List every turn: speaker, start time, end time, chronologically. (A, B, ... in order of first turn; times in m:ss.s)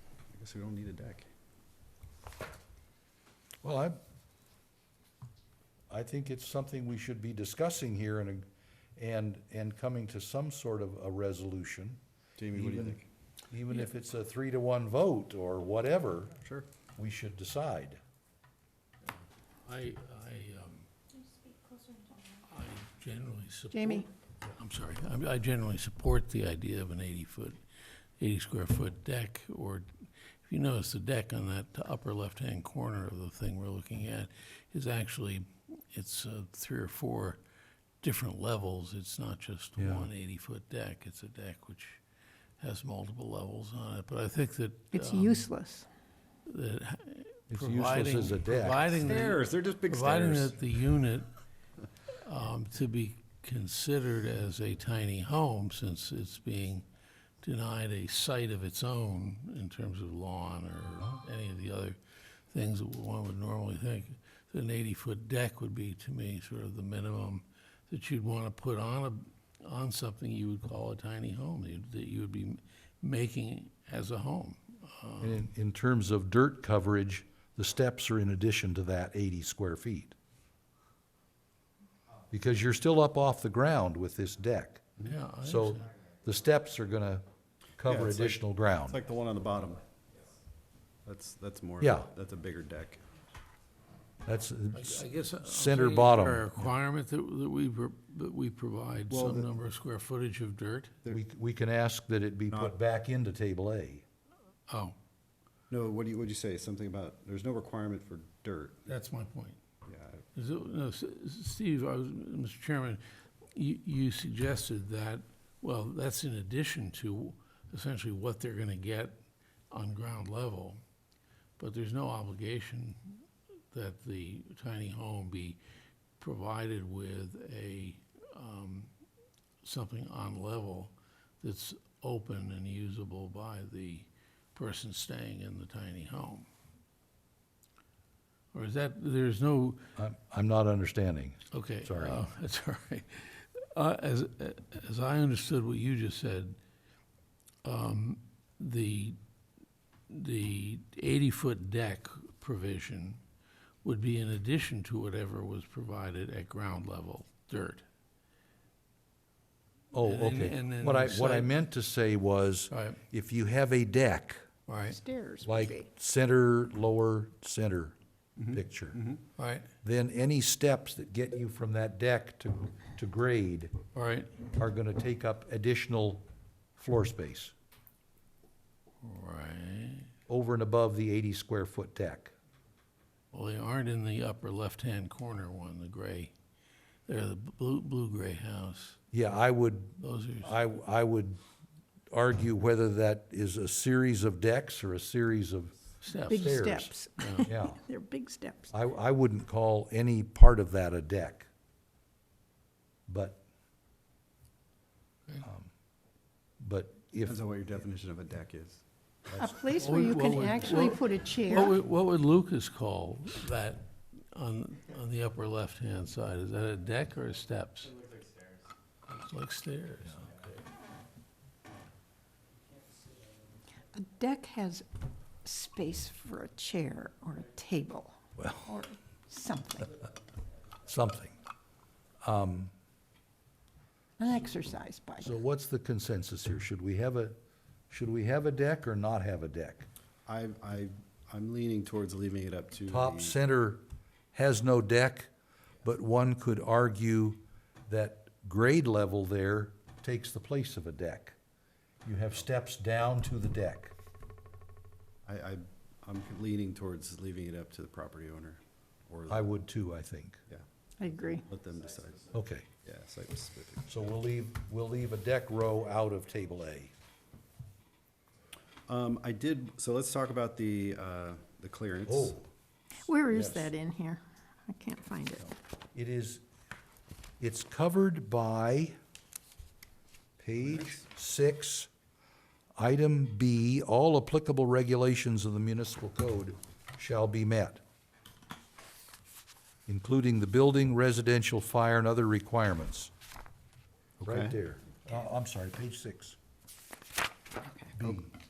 0:00.3-0:01.3 A
0:03.6-0:04.0 B
0:05.9-0:08.4 B
0:09.0-0:12.0 B
0:12.4-0:13.1 A
0:12.5-0:16.4 B
0:17.0-0:18.0 B
0:19.6-0:21.3 C
0:22.2-0:27.6 C
0:23.7-0:24.1 D
0:28.2-0:37.4 C
0:38.0-0:42.0 C
0:39.8-0:40.1 B
0:42.6-0:45.5 C
0:44.9-0:45.9 D
0:46.5-0:51.3 C
0:47.5-0:48.8 B
0:49.0-0:50.6 A
0:52.2-0:56.8 C
0:57.4-1:02.0 C
1:02.5-1:15.4 C
1:15.2-1:20.1 B
1:22.3-1:24.9 B
1:25.0-1:25.9 C
1:25.4-1:27.2 B
1:27.8-1:29.0 B
1:27.8-1:29.8 A
1:31.0-1:33.0 A
1:31.8-1:32.1 B
1:34.2-1:36.5 B
1:34.7-1:41.0 C
1:39.1-1:39.5 A
1:41.1-1:44.0 B
1:42.5-1:42.8 A
1:44.7-1:45.0 C
1:45.7-1:48.9 A
1:48.8-1:49.6 C
1:49.8-1:50.2 A
1:50.3-1:59.2 C
1:59.7-2:00.8 C
2:01.6-2:05.6 C
2:06.2-2:08.9 C
2:09.6-2:16.5 C
2:18.5-2:19.9 C
2:20.0-2:22.2 B
2:21.5-2:26.6 C
2:27.6-2:29.2 C
2:30.1-2:33.2 C
2:33.8-2:37.8 C
2:39.9-2:44.4 B
2:40.0-2:41.5 C
2:42.7-2:43.0 C
2:44.7-2:45.0 C
2:44.8-2:45.9 D
2:45.4-2:48.0 B
2:48.4-2:49.2 A
2:48.5-2:49.0 B
2:49.4-2:49.7 C
2:49.8-2:53.7 B
2:53.9-2:54.3 C
2:54.5-2:56.2 B
2:56.8-2:57.5 B
2:59.0-3:00.1 C
3:00.3-3:02.3 B
3:03.3-3:06.3 C
3:07.1-3:09.0 C
3:09.1-3:11.4 B
3:10.0-3:10.6 C
3:12.1-3:16.9 B
3:16.0-3:17.5 C
3:16.2-3:18.7 D
3:17.4-3:17.8 B
3:18.7-3:21.5 B
3:23.1-3:23.4 B
3:25.4-3:25.7 B
3:26.6-3:27.4 B
3:27.2-3:29.6 A
3:29.4-3:31.8 D
3:29.8-3:38.0 C
3:39.1-3:40.6 C
3:43.9-3:44.8 D
3:45.4-3:50.0 D
3:48.4-3:48.7 B
3:50.8-3:51.3 B
3:52.2-3:52.7 B
3:54.2-3:55.3 D
3:55.2-3:57.4 B
3:57.9-3:59.9 B
4:00.2-4:03.3 A
4:02.9-4:05.3 B
4:05.8-4:11.3 B
4:12.0-4:13.9 B
4:15.2-4:19.5 A
4:19.3-4:20.4 B
4:20.5-4:24.0 A
4:21.0-4:21.5 D
4:22.3-4:22.6 B
4:23.9-4:26.9 B
4:28.9-4:32.4 A
4:32.1-4:32.5 B
4:33.0-4:35.6 D
4:33.2-4:33.7 B
4:35.9-4:36.4 B
4:37.4-4:39.0 B
4:40.4-4:41.9 B
4:40.6-4:41.0 A
4:42.8-4:47.8 B
4:49.9-4:53.1 B
4:54.2-4:54.6 A
4:54.2-4:56.4 B
4:57.6-4:58.0 D
4:58.0-4:58.3 B